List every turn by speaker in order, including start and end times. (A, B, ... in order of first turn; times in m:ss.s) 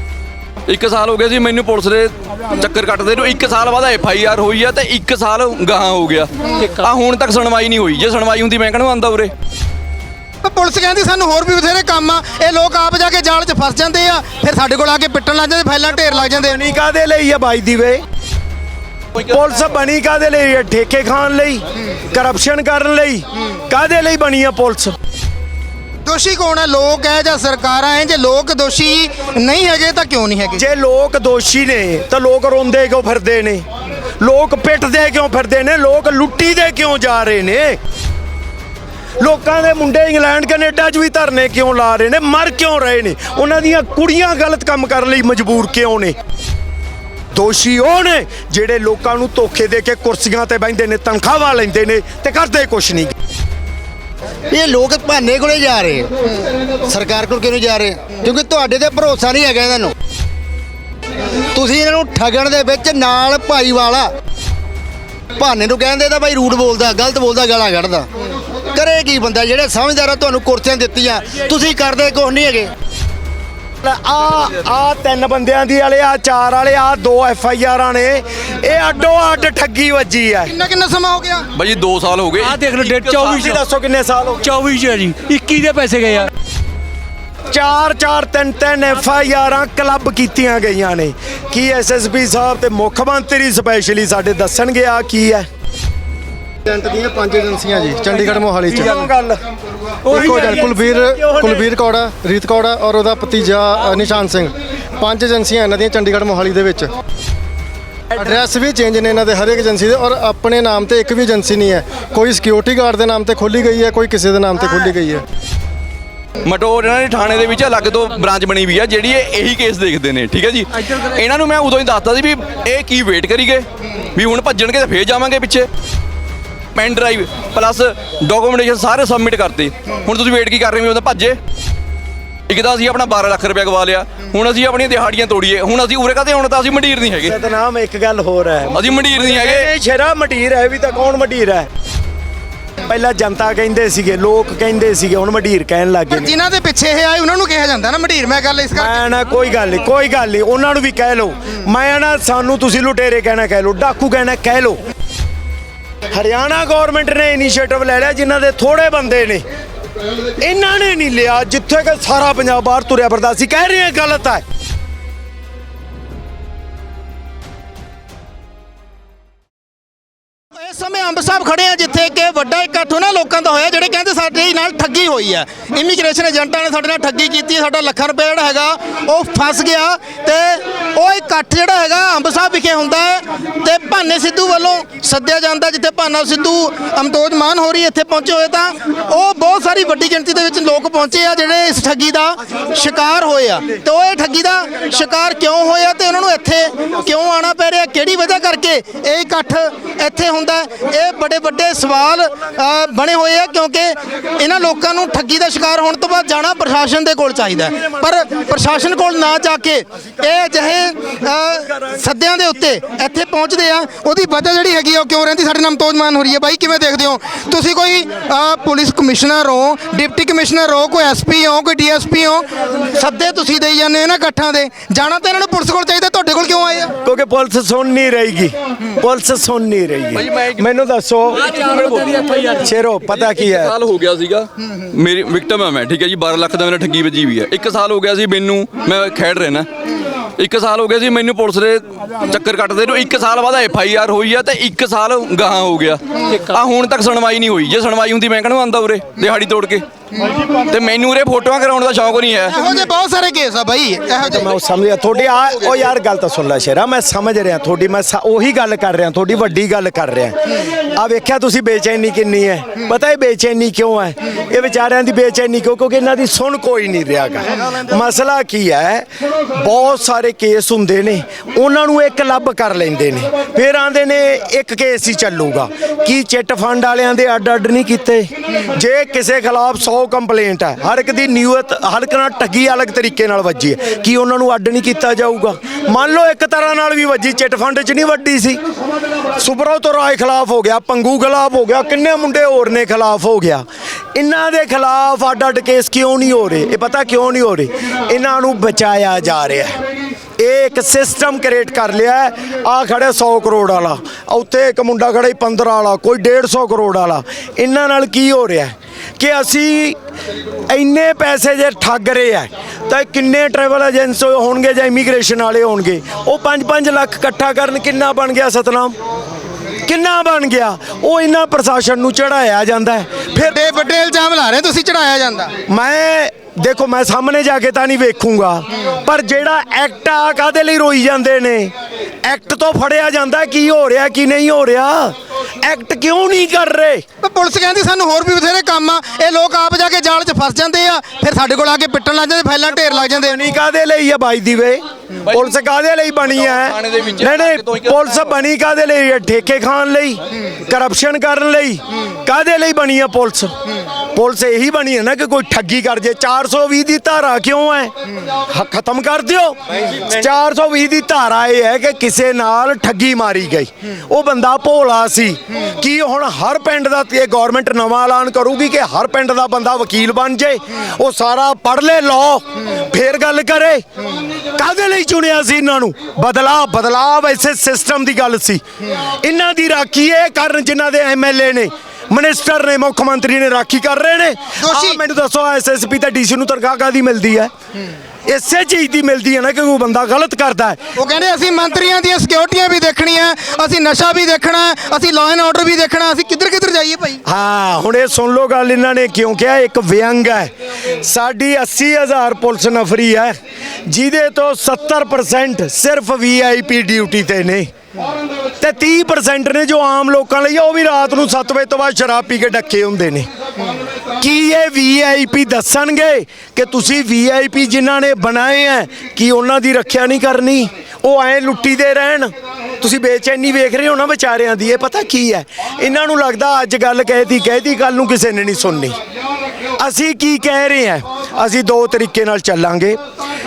0:00.7-0:09.3 A
0:10.4-0:16.6 B
0:16.3-0:18.0 C
0:19.2-0:25.0 C
0:26.0-0:30.6 B
0:30.6-0:33.6 C
0:34.2-0:37.8 C
0:39.2-0:46.2 C
0:47.3-0:53.1 C
0:54.5-0:56.1 D
0:56.8-0:59.9 D
1:01.5-1:04.1 D
1:05.4-1:08.1 D
1:08.7-1:12.7 D
1:13.8-1:20.5 C
1:20.4-1:21.4 B
1:21.5-1:23.2 A
1:22.4-1:23.6 E
1:23.0-1:24.5 C
1:24.4-1:26.3 E
1:27.5-1:35.5 C
1:36.6-1:39.1 F
1:38.7-1:39.4 C
1:40.1-1:46.9 F
1:40.1-1:41.6 C
1:48.2-1:55.2 F
1:56.4-2:05.7 A
2:06.7-2:11.4 A
2:12.5-2:17.4 A
2:17.2-2:21.7 C
2:18.7-2:19.7 A
2:22.9-2:26.3 C
2:26.1-2:29.0 B
2:28.8-2:34.8 C
2:36.1-2:39.4 C
2:40.4-2:44.4 C
2:50.6-3:46.9 B
3:47.0-3:51.5 C
3:50.1-3:50.6 A
3:51.4-3:52.5 A
3:52.6-3:53.7 C
3:53.1-3:59.7 A
4:00.4-4:09.8 A
4:10.7-4:12.5 A
4:12.5-4:14.5 B
4:14.2-4:20.4 C
4:20.9-4:48.6 C
4:49.4-4:59.8 C
5:00.4-5:10.0 C
5:10.7-5:19.0 C
5:19.8-5:23.6 C
5:23.4-5:25.5 B
5:25.7-5:37.0 C
5:37.2-5:43.4 B
5:42.8-5:53.5 C
5:45.2-5:45.6 A
5:46.2-5:48.3 A
5:54.1-5:57.9 C
5:58.5-6:13.8 C
6:14.6-6:18.6 C
6:19.2-6:27.5 C
6:24.6-6:25.0 B
6:28.3-6:30.8 C
6:31.0-6:37.2 B
6:37.2-6:43.3 C
6:43.9-6:47.7 C
6:48.6-6:53.3 C
6:54.2-7:09.0 C
7:09.8-7:13.0 C